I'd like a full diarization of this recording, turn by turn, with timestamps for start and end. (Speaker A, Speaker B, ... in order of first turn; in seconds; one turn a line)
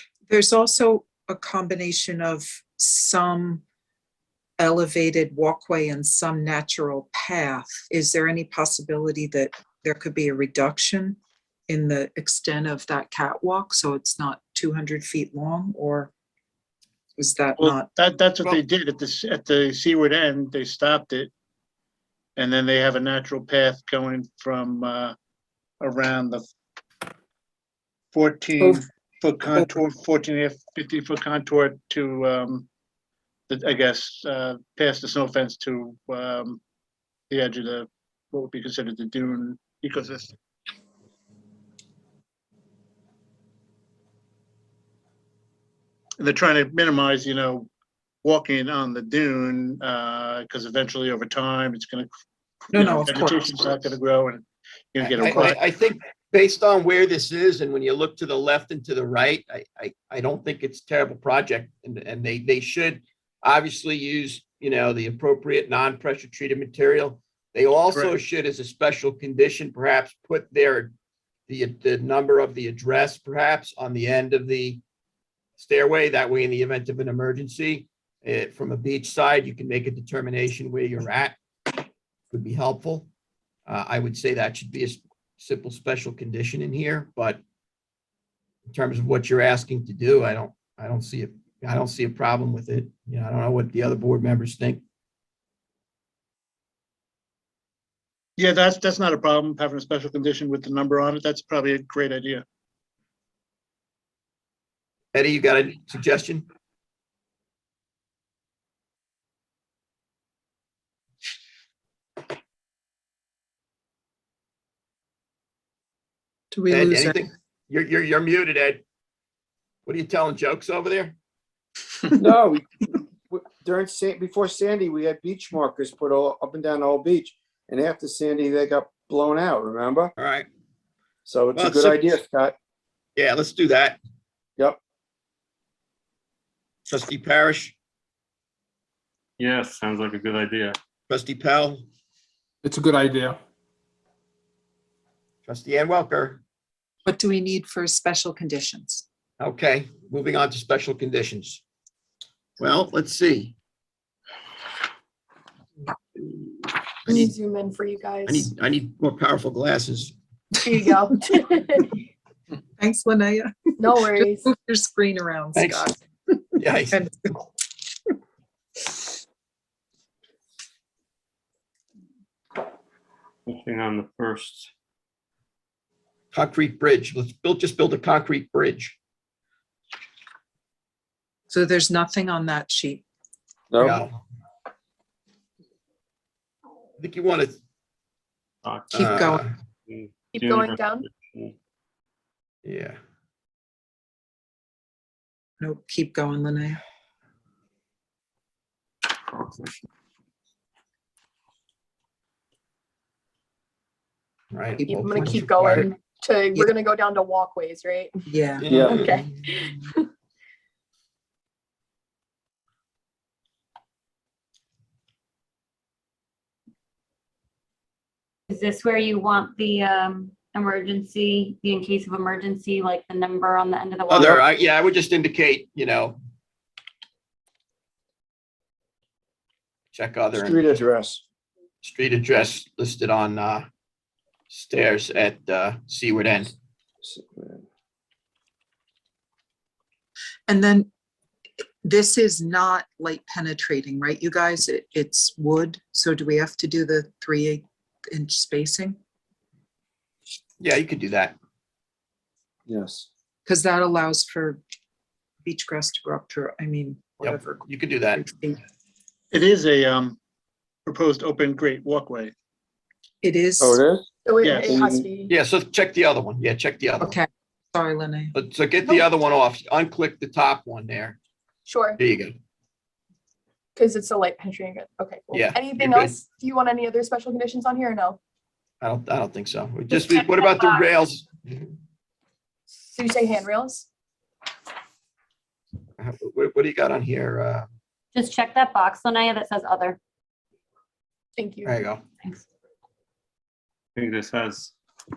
Speaker A: 0.3-3.6
Speaker A: 4.6-16.1
Speaker A: 17.2-17.9
Speaker B: 17.6-21.3
Speaker B: 22.4-25.1
Speaker B: 25.8-26.4
Speaker B: 28.1-32.7
Speaker A: 29.5-29.8
Speaker B: 33.5-36.6
Speaker B: 37.3-40.3
Speaker B: 46.2-47.7
Speaker B: 48.2-52.1
Speaker A: 52.7-53.9
Speaker B: 52.7-54.4
Speaker B: 54.9-55.6
Speaker C: 55.2-70.9
Speaker A: 55.2-55.5
Speaker C: 71.5-74.8
Speaker C: 75.6-81.4
Speaker C: 82.3-83.1
Speaker C: 83.7-87.4
Speaker C: 88.7-94.8
Speaker B: 98.4-102.4
Speaker C: 105.1-106.5
Speaker A: 116.5-117.3
Speaker C: 116.7-118.8
Speaker C: 119.9-121.2
Speaker D: 122.2-130.1
Speaker C: 130.2-130.5
Speaker D: 131.3-132.6
Speaker C: 131.6-132.1
Speaker C: 133.2-134.0
Speaker C: 136.9-137.8
Speaker E: 139.4-140.8
Speaker C: 141.1-141.8
Speaker C: 145.4-146.4
Speaker A: 147.1-149.1
Speaker C: 149.4-151.6
Speaker C: 152.6-153.6
Speaker C: 157.1-157.3
Speaker F: 157.1-158.5
Speaker C: 158.3-160.1
Speaker F: 160.6-161.9
Speaker A: 162.8-166.4
Speaker F: 163.8-164.5
Speaker C: 165.6-165.9
Speaker C: 166.6-167.0
Speaker A: 166.9-167.3
Speaker E: 173.5-174.7
Speaker C: 176.3-179.0
Speaker A: 181.5-183.0
Speaker D: 183.7-184.0
Speaker C: 183.8-184.2
Speaker C: 187.0-187.6
Speaker E: 188.7-189.2
Speaker A: 188.9-189.5
Speaker C: 189.0-189.5
Speaker E: 189.9-191.6
Speaker F: 190.3-191.1
Speaker C: 192.6-193.0
Speaker A: 195.6-196.8
Speaker C: 204.5-205.9
Speaker F: 204.9-208.1
Speaker A: 204.9-205.4
Speaker A: 208.3-208.7
Speaker C: 208.6-209.3
Speaker D: 208.7-209.0
Speaker F: 208.8-210.1
Speaker G: 218.5-224.4
Speaker C: 224.1-226.2
Speaker C: 229.9-230.6
Speaker D: 230.3-231.2
Speaker C: 231.8-233.7
Speaker C: 234.5-236.5
Speaker D: 237.0-237.7
Speaker A: 240.5-240.9
Speaker A: 241.8-249.0
Speaker C: 250.6-251.3
Speaker D: 252.7-253.1
Speaker A: 253.5-254.6
Speaker A: 255.4-258.6
Speaker C: 257.2-258.2
Speaker B: 259.3-260.2
Speaker B: 260.9-262.3
Speaker A: 263.2-263.8
Speaker D: 263.6-264.1
Speaker F: 264.3-265.3
Speaker B: 264.4-264.8
Speaker D: 264.6-265.1
Speaker C: 265.3-267.2
Speaker A: 267.0-268.4
Speaker C: 268.3-271.2
Speaker F: 271.7-272.0
Speaker C: 272.0-272.3
Speaker F: 273.8-278.2
Speaker C: 275.3-276.2
Speaker C: 278.8-281.7
Speaker G: 280.0-280.8
Speaker F: 282.8-283.9
Speaker C: 286.0-287.7
Speaker G: 288.1-290.0
Speaker F: 291.4-291.7
Speaker C: 291.6-292.0
Speaker E: 294.0-294.7